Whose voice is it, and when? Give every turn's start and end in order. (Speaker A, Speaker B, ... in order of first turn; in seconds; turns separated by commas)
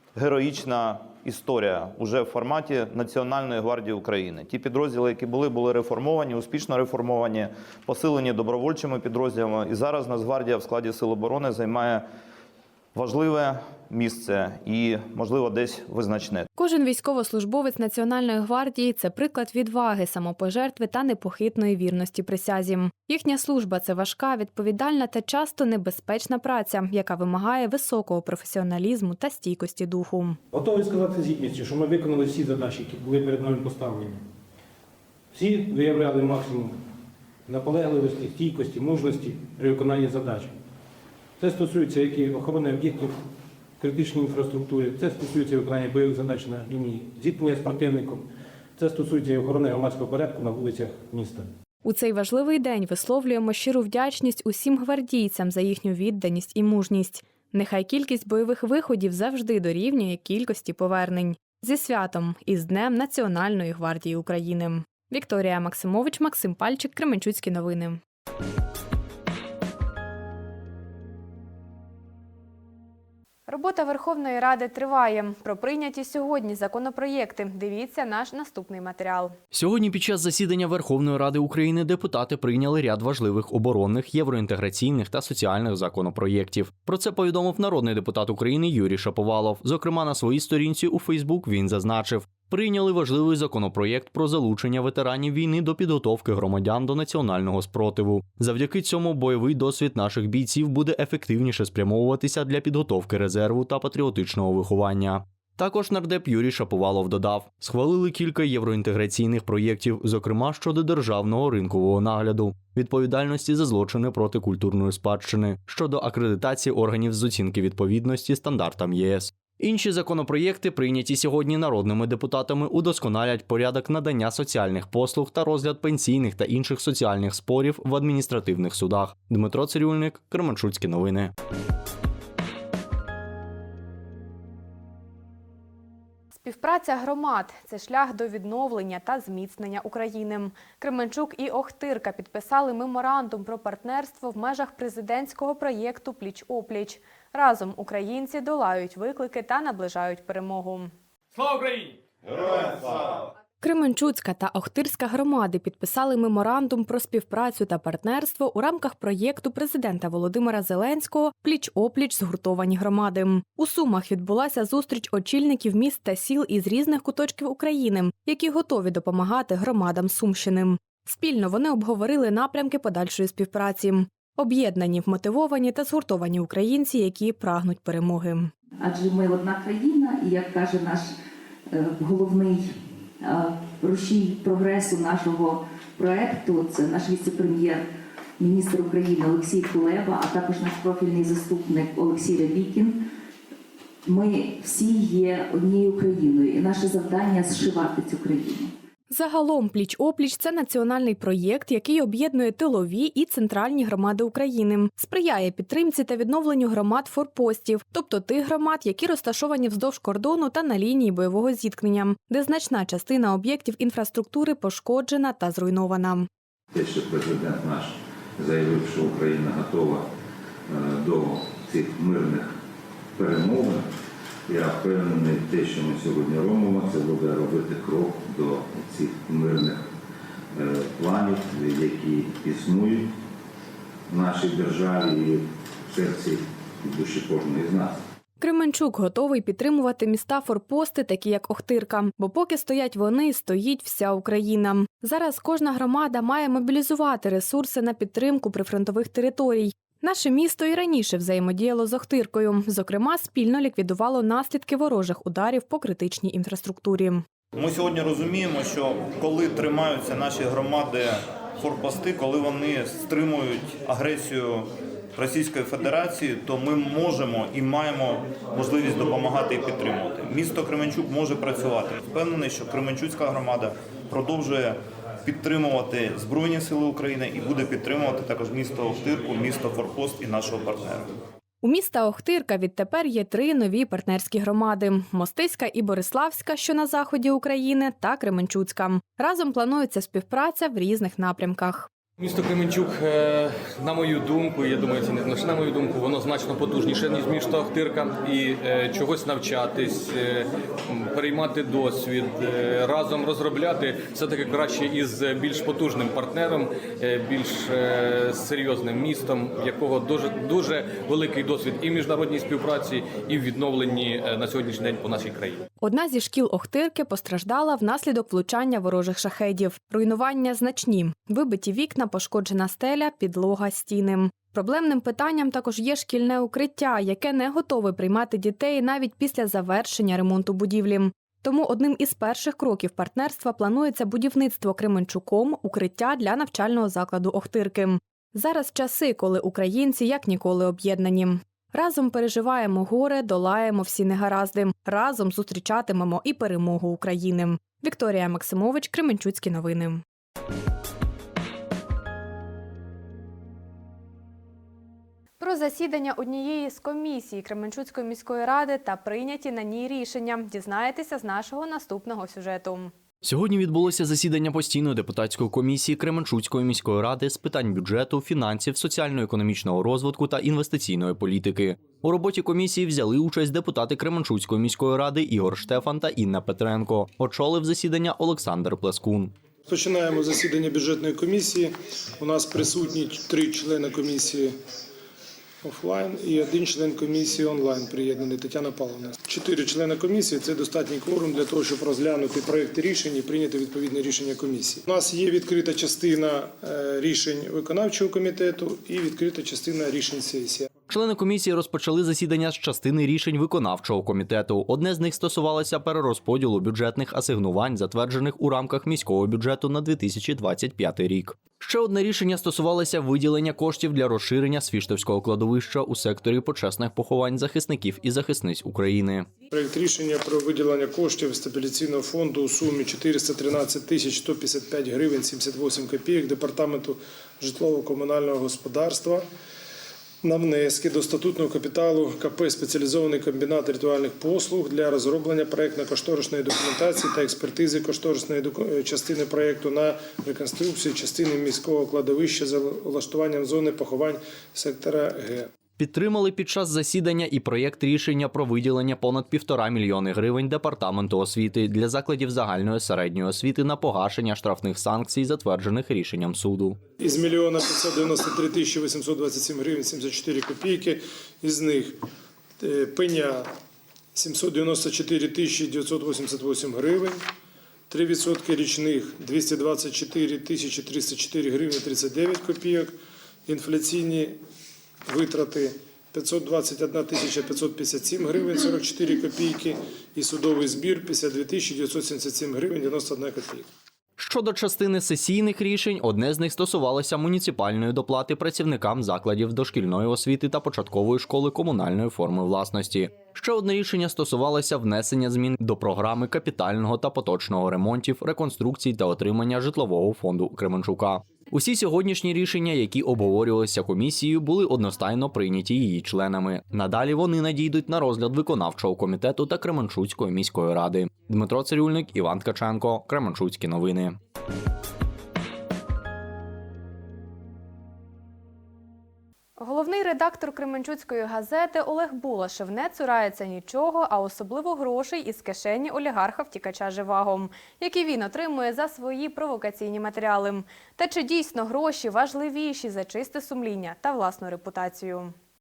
Speaker A: 0.1-12.1, Speaker A: 12.9-16.5, Speaker B: 16.6-30.4, Speaker C: 30.5-34.2, Speaker C: 35.3-36.8, Speaker C: 37.5-40.6, Speaker C: 41.4-43.2, Speaker C: 43.8-51.5, Speaker B: 51.8-68.0, Speaker B: 73.5-79.4, Speaker D: 79.5-131.3, Speaker B: 136.4-150.9, Speaker E: 151.4-151.9, Speaker B: 153.6-178.5, Speaker F: 178.8-181.1, Speaker F: 181.7-187.8, Speaker F: 188.4-193.0, Speaker F: 194.1-198.7, Speaker B: 199.1-216.3, Speaker G: 216.7-220.1, Speaker G: 220.7-222.6, Speaker G: 223.2-223.9, Speaker G: 224.5-229.9, Speaker G: 230.5-233.1, Speaker G: 234.1-238.0, Speaker B: 238.4-257.2, Speaker A: 257.6-281.1, Speaker B: 281.6-291.9, Speaker E: 292.2-315.6, Speaker B: 315.8-350.0, Speaker B: 355.4-362.9, Speaker D: 363.2-379.3, Speaker H: 379.7-384.6, Speaker H: 385.6-400.7, Speaker D: 400.9-419.3, Speaker H: 419.5-429.2, Speaker H: 430.2-445.5, Speaker D: 445.8-456.8, Speaker H: 457.0-462.0, Speaker H: 462.6-463.5, Speaker H: 464.1-467.2, Speaker H: 467.9-472.9, Speaker H: 473.5-474.4, Speaker H: 475.1-483.7, Speaker D: 484.2-514.2, Speaker B: 519.6-535.3